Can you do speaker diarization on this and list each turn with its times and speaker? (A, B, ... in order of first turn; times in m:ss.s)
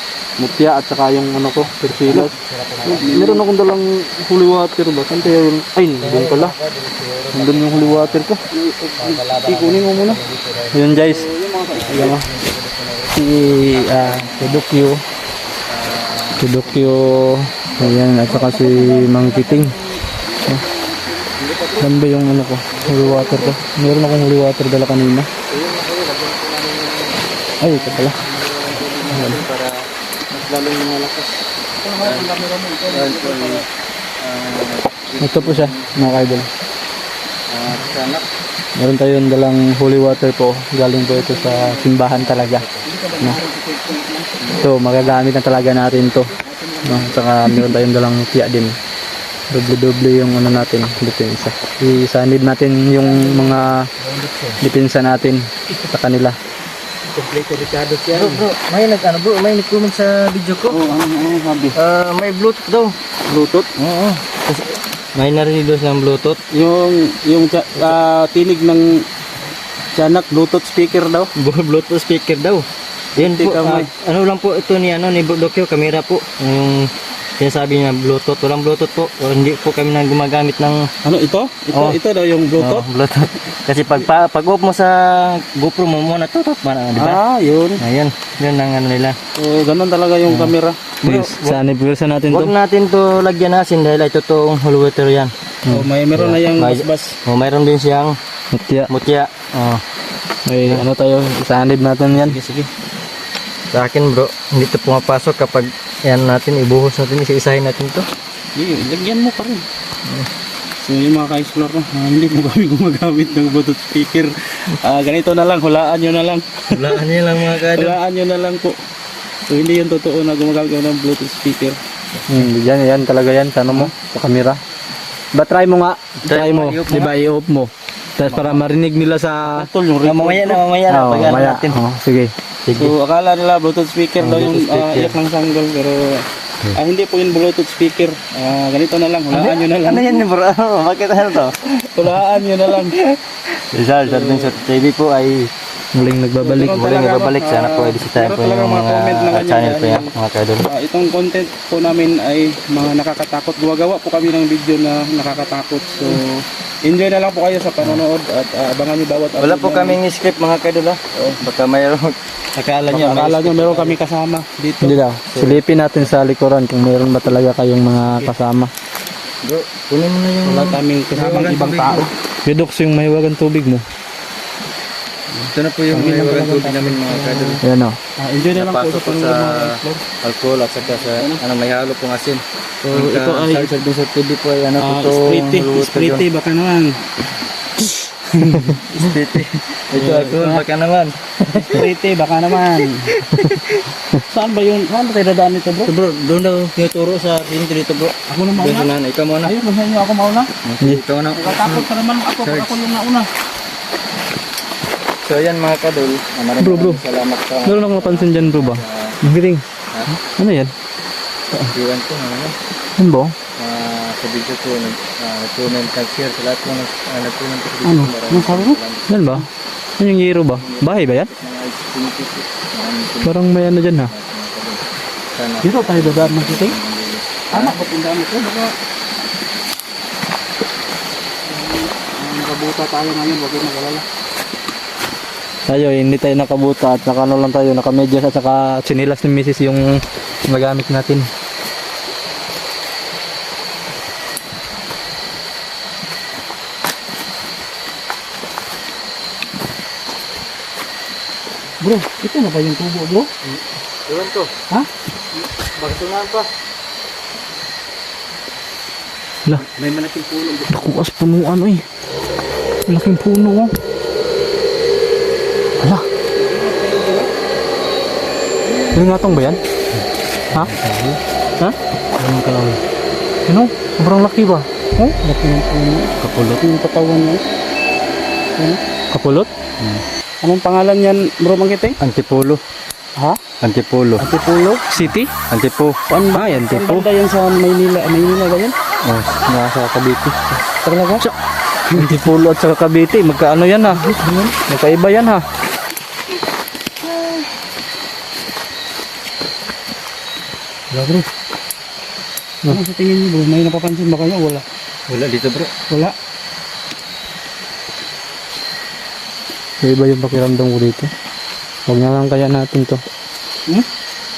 0:00.4-0:02.3 A
0:01.8-0:03.3 B
0:02.8-0:03.5 C
0:03.0-0:06.6 A
0:06.0-0:08.3 B
0:07.3-0:08.4 A
0:08.4-0:10.2 C
0:09.0-0:11.1 B
0:10.7-0:12.3 A
0:11.0-0:12.2 C
0:11.7-0:14.7 B
0:13.1-0:15.0 A
0:15.6-0:18.0 B
0:16.4-0:19.8 A
0:18.2-0:21.4 C
0:21.4-0:21.9 B
0:21.8-0:25.3 A
0:22.7-0:23.6 B
0:22.9-0:23.6 C
0:25.5-0:31.4 B
0:27.6-0:29.4 C
0:27.6-0:28.2 A
0:29.1-0:29.4 A
0:31.8-0:33.7 C
0:32.0-0:32.4 B
0:32.9-0:33.6 B
0:34.2-0:36.5 B
0:35.2-0:36.5 A
0:37.5-0:38.2 B
0:38.8-0:42.6 A
0:41.0-0:42.2 C
0:42.0-0:43.0 B
0:42.8-0:45.1 C
0:44.5-0:46.3 A
0:46.1-0:47.2 C
0:46.8-0:48.8 A
0:49.5-0:53.9 A
0:53.0-0:53.8 C
0:54.0-0:54.6 B
0:54.6-0:56.4 A
0:57.1-0:58.5 C
0:58.1-1:00.8 B
1:00.7-1:01.8 C
1:01.7-1:02.9 B
1:03.2-1:03.7 C
1:03.8-1:06.4 B
1:06.5-1:09.1 C
1:09.9-1:11.3 C
1:11.4-1:20.9 B
1:13.2-1:13.9 C
1:21.0-1:22.9 C
1:21.7-1:22.0 B
1:22.6-1:27.2 B
1:27.0-1:27.8 C
1:27.8-1:29.2 B
1:29.4-1:30.9 C
1:31.0-1:31.6 B
1:31.0-1:32.5 A
1:32.3-1:35.3 B
1:35.7-1:37.2 C
1:36.1-1:38.2 B
1:38.5-1:38.9 A
1:38.9-1:39.8 B
1:40.5-1:42.4 A
1:42.1-1:42.7 C
1:43.7-1:48.1 B
1:48.6-1:49.7 C
1:50.8-1:58.8 C
1:56.7-1:58.0 B
1:59.4-2:01.8 C
2:02.3-2:04.6 A
2:05.3-2:09.7 A
2:06.2-2:07.1 B
2:08.3-2:08.6 B
2:08.3-2:08.6 C
2:09.4-2:10.6 C
2:10.0-2:11.8 B
2:10.9-2:12.3 A
2:12.6-2:12.9 B
2:12.7-2:20.2 C
2:14.2-2:15.2 B
2:19.3-2:22.0 B
2:21.8-2:23.0 C
2:22.7-2:25.5 B
2:24.0-2:24.6 C
2:25.9-2:26.8 A
2:26.4-2:40.0 C
2:26.5-2:30.7 B
2:39.4-2:44.0 B
2:41.1-2:41.4 C
2:42.9-2:45.0 C
2:44.8-2:48.7 A
2:45.3-2:46.1 B
2:49.4-2:52.1 B
2:50.4-2:52.1 C
2:52.4-2:53.8 A
2:55.3-2:57.6 C
2:55.5-2:57.6 B
2:57.6-2:58.0 A
2:58.2-3:00.1 C
2:58.5-3:06.2 B
3:01.1-3:01.4 C
3:02.8-3:03.7 C
3:04.8-3:07.0 C
3:08.3-3:09.1 C
3:08.4-3:11.9 B
3:09.9-3:10.6 C
3:11.5-3:13.2 C
3:13.1-3:13.8 B
3:14.1-3:15.9 C
3:15.8-3:19.6 B
3:18.3-3:20.5 C
3:20.6-3:21.9 B
3:21.3-3:23.3 C
3:22.4-3:22.7 B
3:25.2-3:29.2 B
3:26.6-3:27.0 A
3:27.6-3:29.6 A
3:29.9-3:30.2 B
3:30.2-3:30.7 A
3:31.7-3:32.6 B
3:33.0-3:33.4 A
3:33.6-3:39.4 B
3:37.8-3:38.8 C
3:39.1-3:39.5 A
3:40.0-3:41.3 A
3:40.6-3:47.8 B
3:43.2-3:44.1 A
3:45.6-3:46.7 A
3:47.5-3:48.8 C
3:51.4-3:54.1 C
3:55.7-4:01.3 A
4:11.8-4:13.3 C
4:13.4-4:14.5 B
4:15.5-4:16.5 B
4:19.6-4:20.9 C
4:20.7-4:21.8 A
4:22.9-4:23.7 A
4:25.8-4:26.1 A
4:26.4-4:27.3 C
4:28.6-4:29.6 C
4:28.9-4:29.6 A
4:29.9-4:31.2 B
4:32.2-4:32.8 B
4:33.5-4:34.7 A
4:35.0-4:37.4 C
4:36.2-4:36.6 B
4:39.1-4:39.5 A
4:39.8-4:40.0 B
4:40.4-4:42.0 C
4:42.0-4:42.6 B
4:43.6-4:44.2 B
4:44.2-4:44.9 C
4:44.9-4:45.3 A
4:45.5-4:46.0 B
4:46.1-4:48.8 C
4:46.3-4:47.0 A
4:49.0-4:49.4 B
4:49.4-4:50.6 A
4:50.8-4:51.2 C
4:51.9-4:52.2 C
4:51.9-4:55.4 A
4:53.9-4:54.6 C
5:00.9-5:01.3 C
5:02.7-5:04.7 C
5:05.1-5:05.7 B
5:05.9-5:06.1 C
5:09.8-5:11.1 A
5:11.9-5:13.0 A